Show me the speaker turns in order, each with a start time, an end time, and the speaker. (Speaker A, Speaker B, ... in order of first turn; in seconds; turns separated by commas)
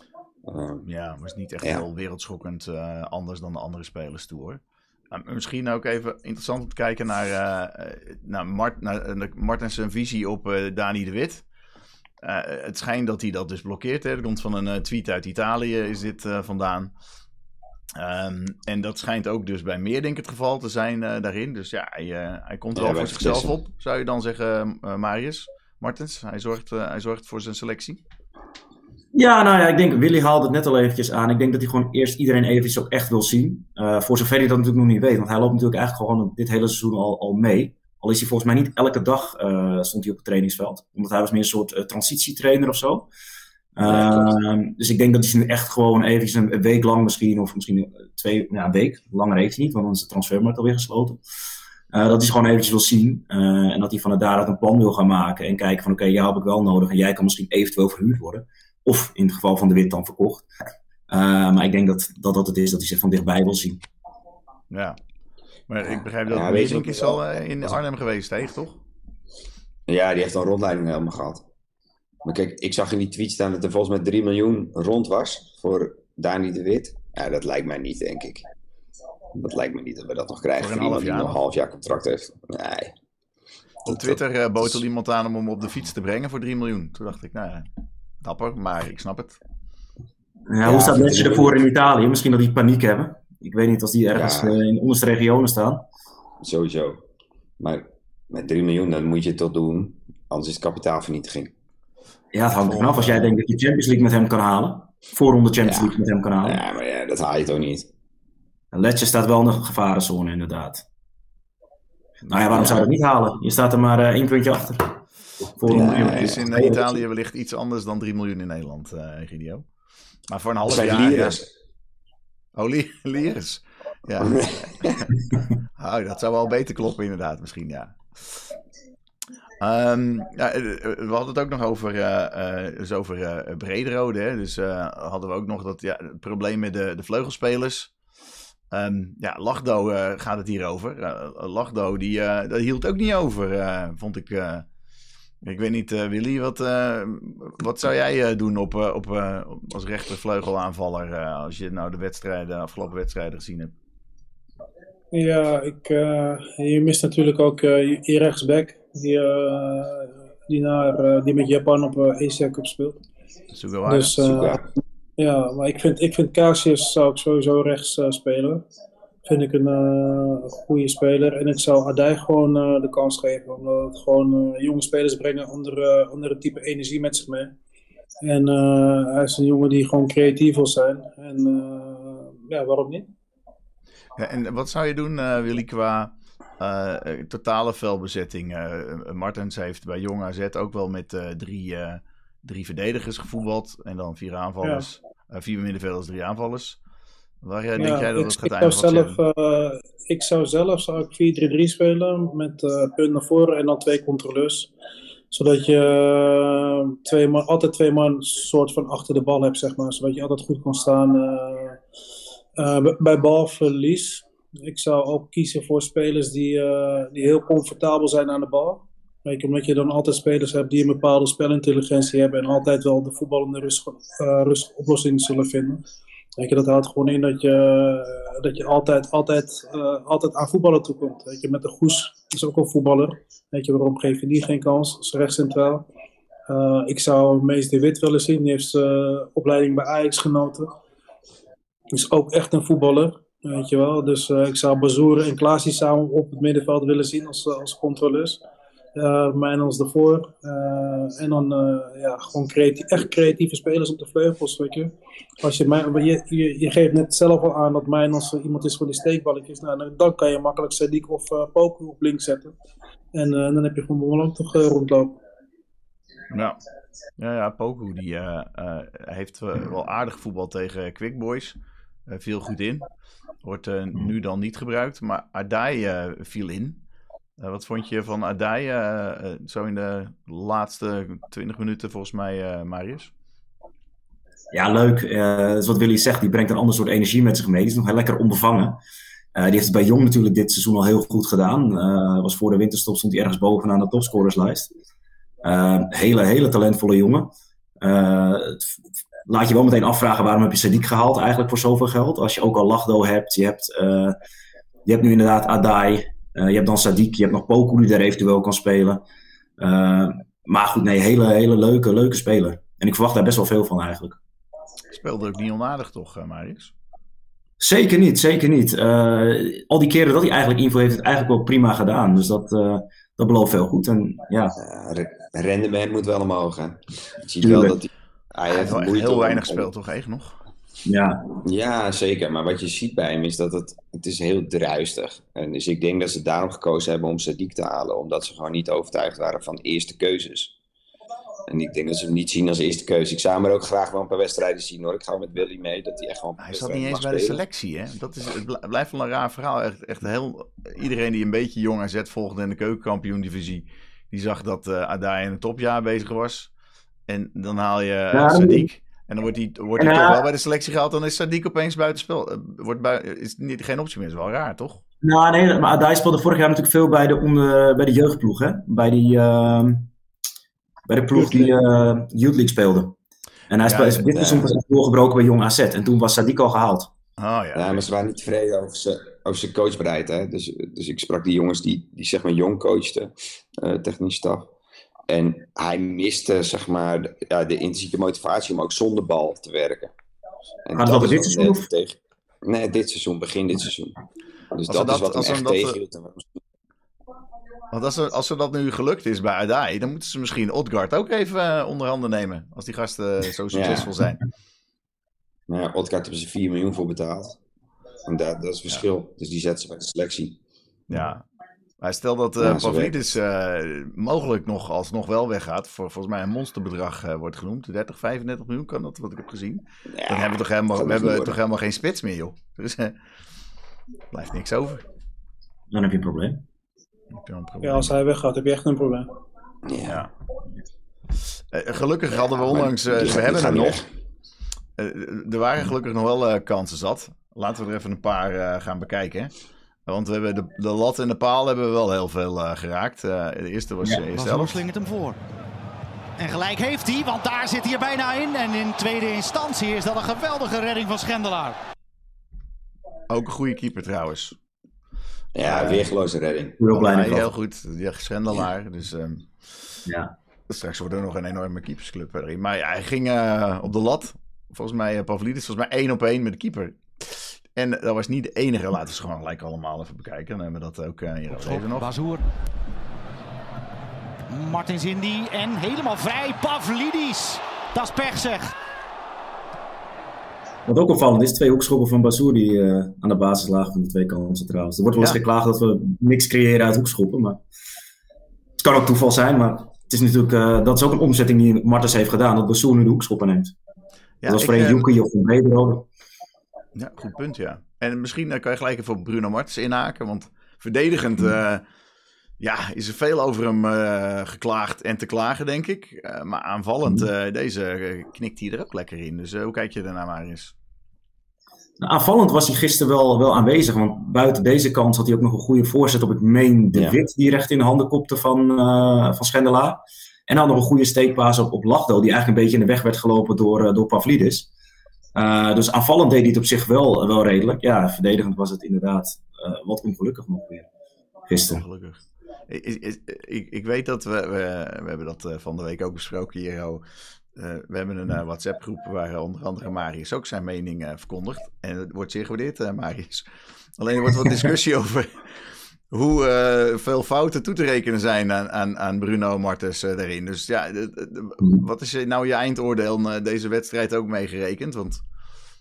Speaker A: 0.5-0.9, Speaker B: 0.8-11.4, Speaker B: 12.2-16.9, Speaker B: 17.9-28.0, Speaker A: 22.7-23.6, Speaker C: 29.1-43.1, Speaker C: 43.8-51.2, Speaker A: 43.8-44.3, Speaker C: 51.9-60.5, Speaker C: 61.1-63.8, Speaker B: 64.7-65.0, Speaker B: 65.7-68.8, Speaker A: 65.8-67.8, Speaker A: 69.9-71.5, Speaker A: 72.2-78.4, Speaker A: 79.3-82.9, Speaker B: 80.6-81.4, Speaker A: 83.9-84.8, Speaker B: 83.9-87.7, Speaker B: 88.2-89.4, Speaker C: 90.5-95.8, Speaker A: 90.6-91.6, Speaker A: 94.1-94.6, Speaker A: 96.4-97.0, Speaker A: 97.6-101.5, Speaker C: 102.3-106.6, Speaker A: 103.0-103.3, Speaker A: 105.6-107.9, Speaker C: 108.7-110.8, Speaker C: 112.3-115.0, Speaker A: 112.5-112.8, Speaker C: 115.5-116.8, Speaker B: 115.7-119.6, Speaker A: 115.7-117.0, Speaker B: 120.3-121.4, Speaker A: 120.7-121.5, Speaker B: 122.5-125.1, Speaker A: 124.2-125.1, Speaker B: 125.8-128.5, Speaker B: 129.6-137.9, Speaker B: 138.7-144.7, Speaker B: 145.4-153.7, Speaker D: 155.1-163.0, Speaker B: 163.5-164.5, Speaker D: 163.9-164.6, Speaker A: 164.3-164.6, Speaker D: 165.2-168.6, Speaker D: 169.2-177.5, Speaker D: 178.2-183.1, Speaker B: 184.2-196.8, Speaker B: 197.4-199.2, Speaker D: 197.8-204.7, Speaker D: 205.3-211.8, Speaker D: 212.6-225.8, Speaker D: 226.4-235.8, Speaker D: 236.5-240.7, Speaker D: 241.9-248.4, Speaker D: 248.9-254.9, Speaker D: 255.4-262.5, Speaker D: 263.1-265.2, Speaker B: 266.3-266.6, Speaker B: 267.2-271.5, Speaker B: 272.1-272.9, Speaker B: 273.4-276.8, Speaker B: 277.4-283.1, Speaker C: 284.5-288.8, Speaker C: 289.3-294.7, Speaker C: 295.4-298.7, Speaker C: 299.2-304.2, Speaker C: 304.9-309.0, Speaker C: 309.6-314.2, Speaker B: 314.9-316.7, Speaker C: 317.6-324.6, Speaker A: 324.6-329.7, Speaker C: 327.4-327.7, Speaker B: 327.4-327.7, Speaker B: 328.5-330.4, Speaker C: 330.8-331.2, Speaker A: 331.4-340.5, Speaker A: 341.5-347.4, Speaker B: 346.4-356.5, Speaker B: 357.1-364.8, Speaker C: 358.1-358.7, Speaker C: 359.8-360.2, Speaker C: 365.0-369.9, Speaker C: 370.9-372.9, Speaker C: 373.5-376.9, Speaker B: 373.7-374.1, Speaker A: 374.1-374.5, Speaker B: 377.2-377.9, Speaker A: 377.5-384.5, Speaker A: 385.1-389.9, Speaker A: 390.6-394.0, Speaker C: 390.7-391.7, Speaker A: 394.5-396.3, Speaker B: 394.7-395.8, Speaker B: 397.7-404.2, Speaker A: 403.5-403.9, Speaker A: 405.5-407.4, Speaker A: 408.1-410.4, Speaker B: 410.9-411.2, Speaker B: 411.8-422.9, Speaker A: 412.4-413.1, Speaker A: 419.9-421.4, Speaker B: 424.1-424.8, Speaker C: 425.7-426.4, Speaker B: 427.1-427.9, Speaker D: 427.6-429.1, Speaker A: 429.6-430.0, Speaker B: 429.9-430.1, Speaker B: 431.5-433.8, Speaker A: 432.1-433.9, Speaker B: 434.8-439.3, Speaker B: 439.9-444.6, Speaker E: 444.1-445.2, Speaker E: 446.2-451.6, Speaker B: 453.1-454.4, Speaker A: 455.3-456.6, Speaker B: 455.4-455.9, Speaker C: 456.6-457.3, Speaker B: 456.7-459.3, Speaker C: 459.9-460.1, Speaker B: 460.5-471.9, Speaker E: 471.3-472.2, Speaker E: 474.3-478.5, Speaker C: 480.6-487.4, Speaker C: 488.6-493.5, Speaker B: 494.2-494.9, Speaker C: 494.2-495.9, Speaker B: 496.7-501.6, Speaker B: 502.4-510.5, Speaker C: 511.8-524.5, Speaker C: 525.1-530.7, Speaker C: 531.3-531.6, Speaker B: 531.5-536.8, Speaker B: 537.4-543.2, Speaker B: 543.8-555.0